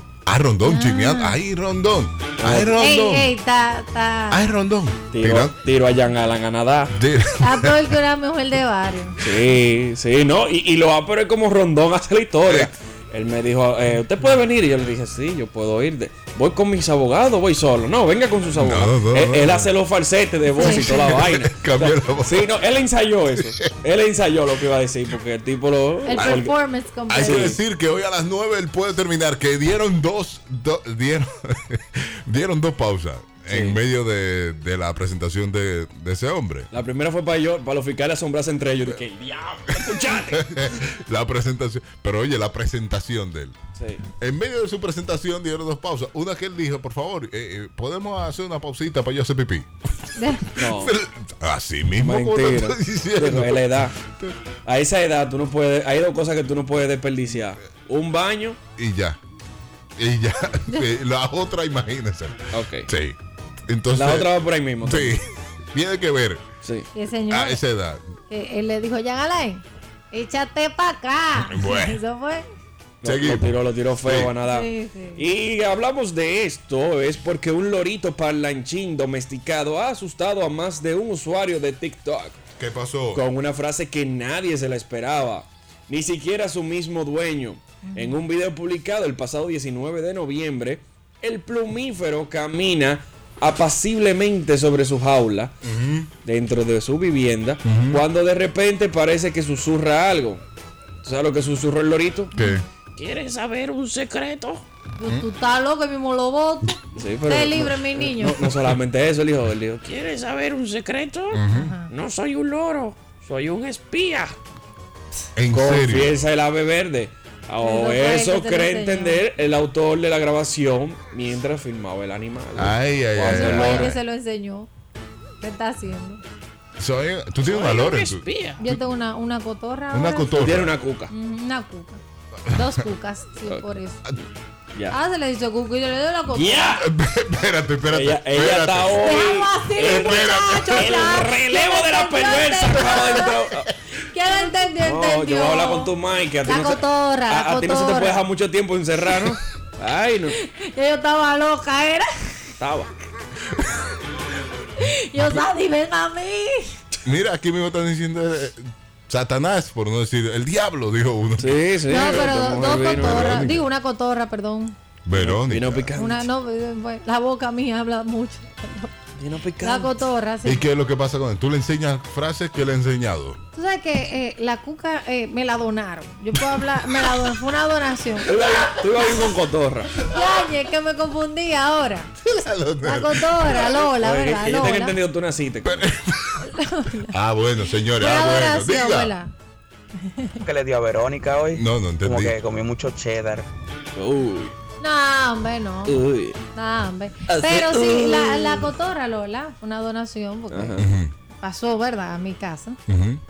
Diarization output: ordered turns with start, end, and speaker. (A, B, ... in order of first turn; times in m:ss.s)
0:00.3-0:03.3 A
0:00.6-0:01.4 B
0:02.4-0:02.8 C
0:02.8-0:04.5 B
0:04.3-0:05.6 A
0:05.1-0:07.0 C
0:06.9-0:07.9 A
0:07.4-0:09.2 B
0:09.2-0:26.5 C
0:12.4-0:12.7 A
0:18.6-0:19.7 A
0:20.6-0:21.2 B
0:20.6-0:22.5 A
0:23.4-0:23.7 A
0:26.0-0:27.6 B
0:26.1-0:26.4 A
0:27.1-0:36.7 A
0:27.2-0:27.6 C
0:33.5-0:33.8 C
0:36.7-0:40.5 C
0:39.7-0:43.6 A
0:43.8-0:44.0 C
0:44.2-0:49.7 A
0:50.2-0:50.5 B
0:50.6-0:51.0 C
0:50.6-0:54.3 A
0:52.0-0:54.0 C
0:54.6-0:58.6 C
0:58.8-0:59.2 A
1:00.0-1:03.2 A
1:02.5-1:02.9 C
1:03.7-1:06.4 A
1:03.9-1:05.2 C
1:06.6-1:06.9 C
1:06.9-1:07.6 B
1:07.3-1:08.0 A
1:08.3-1:12.4 B
1:11.4-1:12.0 A
1:13.0-1:22.4 C
1:13.0-1:14.3 A
1:14.4-1:15.2 B
1:22.6-1:23.2 A
1:23.1-1:35.5 C
1:27.9-1:28.2 B
1:35.6-1:36.1 A
1:36.2-1:40.4 C
1:37.6-1:38.0 A
1:41.0-1:42.4 C
1:42.3-1:42.6 A
1:42.4-1:42.6 B
1:42.9-1:44.6 C
1:45.0-1:48.5 B
1:47.0-1:54.4 C
1:51.3-1:51.7 A
1:51.5-1:51.9 B
1:55.4-1:56.2 A
1:55.5-2:04.0 C
1:57.6-1:59.2 B
2:02.6-2:04.0 A
2:03.2-2:04.7 B
2:05.4-2:06.2 B
2:06.8-2:08.8 A
2:07.4-2:08.6 C
2:08.6-2:12.0 B
2:09.9-2:10.8 A
2:10.4-2:11.1 C
2:12.5-2:14.0 B
2:14.9-2:16.8 B
2:16.3-2:16.8 C
2:16.8-2:19.2 A
2:17.9-2:23.7 C
2:19.0-2:23.4 B
2:19.8-2:21.2 A
2:24.0-2:28.2 B
2:24.8-2:30.4 C
2:30.3-2:32.1 B
2:32.6-2:32.9 C
2:33.6-2:33.8 A
2:34.8-2:36.7 B
2:37.0-2:42.2 A
2:41.4-2:43.6 C
2:41.9-2:44.8 B
2:42.8-2:43.7 A
2:45.1-2:45.9 A
2:45.1-2:46.3 C
2:45.9-2:48.9 B
2:49.2-2:49.9 C
2:49.6-2:50.7 B
2:50.4-2:53.4 A
2:53.5-2:58.3 B
2:58.2-3:00.0 C
3:00.0-3:02.1 B
3:02.2-3:03.7 A
3:02.8-3:05.0 B
3:03.8-3:05.9 C
3:05.6-3:06.5 A
3:06.4-3:07.1 B
3:07.1-3:09.1 A
3:07.8-3:09.3 B
3:10.0-3:10.4 B
3:10.4-3:13.5 D
3:11.5-3:12.4 A
3:13.9-3:14.5 C
3:14.8-3:16.0 B
3:15.8-3:16.4 C
3:16.5-3:20.9 B
3:17.3-3:18.7 C
3:20.5-3:20.9 C
3:20.8-3:21.1 A
3:21.4-3:22.8 B
3:22.9-3:23.2 A